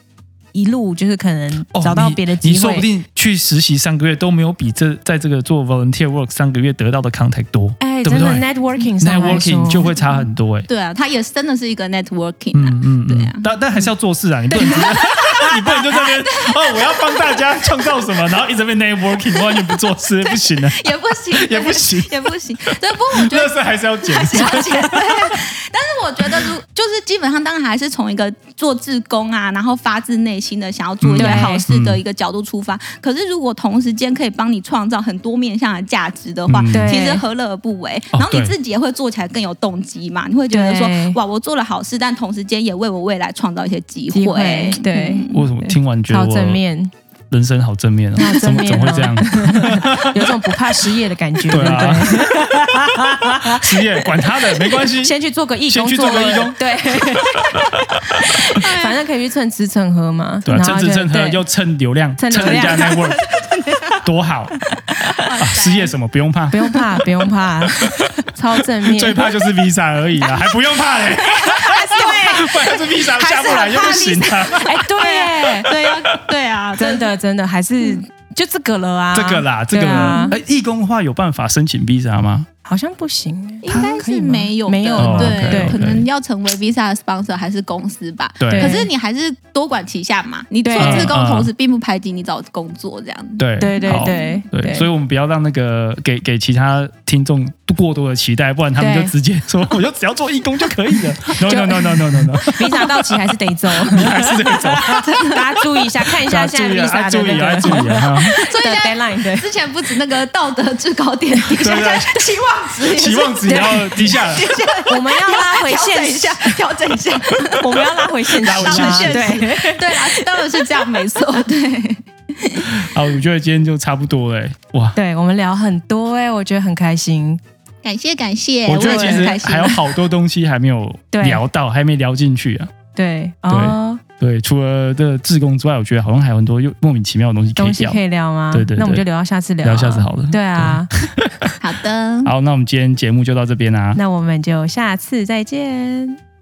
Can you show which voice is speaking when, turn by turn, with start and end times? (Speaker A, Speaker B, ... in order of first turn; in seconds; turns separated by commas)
Speaker A: 0.5-2.9, Speaker B: 1.7-8.4, Speaker A: 7.8-9.9, Speaker B: 9.0-10.7, Speaker C: 10.7-13.5, Speaker B: 12.5-20.8, Speaker A: 14.5-15.5, Speaker C: 14.6-17.3, Speaker C: 20.2-45.5, Speaker B: 21.4-25.4, Speaker B: 31.0-32.0, Speaker A: 31.2-31.6, Speaker B: 36.5-36.9, Speaker A: 36.7-37.2, Speaker B: 38.1-38.5, Speaker A: 40.5-41.2, Speaker A: 44.1-46.9, Speaker B: 45.3-46.6, Speaker B: 47.3-50.5, Speaker A: 48.2-61.4, Speaker B: 51.5-52.4, Speaker B: 53.5-55.2, Speaker B: 55.7-58.5, Speaker C: 58.6-59.0, Speaker B: 60.5-63.2, Speaker A: 62.2-63.1, Speaker C: 62.4-64.0, Speaker B: 64.0-64.5, Speaker C: 65.0-65.9, Speaker B: 65.4-66.8, Speaker A: 66.5-69.3, Speaker B: 67.8-74.9, Speaker C: 70.9-77.1, Speaker A: 71.9-72.5, Speaker A: 74.5-75.7, Speaker B: 75.7-76.2, Speaker A: 76.8-80.4, Speaker B: 79.1-82.5, Speaker A: 82.6-85.8, Speaker C: 83.6-93.4, Speaker B: 83.7-84.0, Speaker B: 85.0-86.0, Speaker B: 88.4-88.8, Speaker A: 88.5-88.9, Speaker A: 90.6-91.2, Speaker B: 90.8-91.5, Speaker B: 93.4-103.2, Speaker A: 93.6-94.9, Speaker C: 94.0-94.3, Speaker A: 98.8-99.1, Speaker A: 101.4-109.5, Speaker B: 103.7-104.9, Speaker C: 104.8-105.6, Speaker B: 106.2-108.3, Speaker C: 108.2-122.7, Speaker B: 111.6-112.2, Speaker B: 112.9-114.5, Speaker A: 113.4-114.2, Speaker A: 114.8-116.6, Speaker A: 117.5-120.5, Speaker B: 118.4-119.4, Speaker B: 122.6-125.0, Speaker A: 125.0-127.4, Speaker C: 127.8-129.9, Speaker B: 128.7-132.7, Speaker A: 128.8-129.8, Speaker A: 131.1-131.4, Speaker A: 132.9-134.0, Speaker B: 133.5-138.0, Speaker A: 137.6-140.9, Speaker B: 138.5-139.1, Speaker B: 139.6-141.6, Speaker C: 141.6-142.3, Speaker B: 142.2-144.0, Speaker A: 143.9-146.2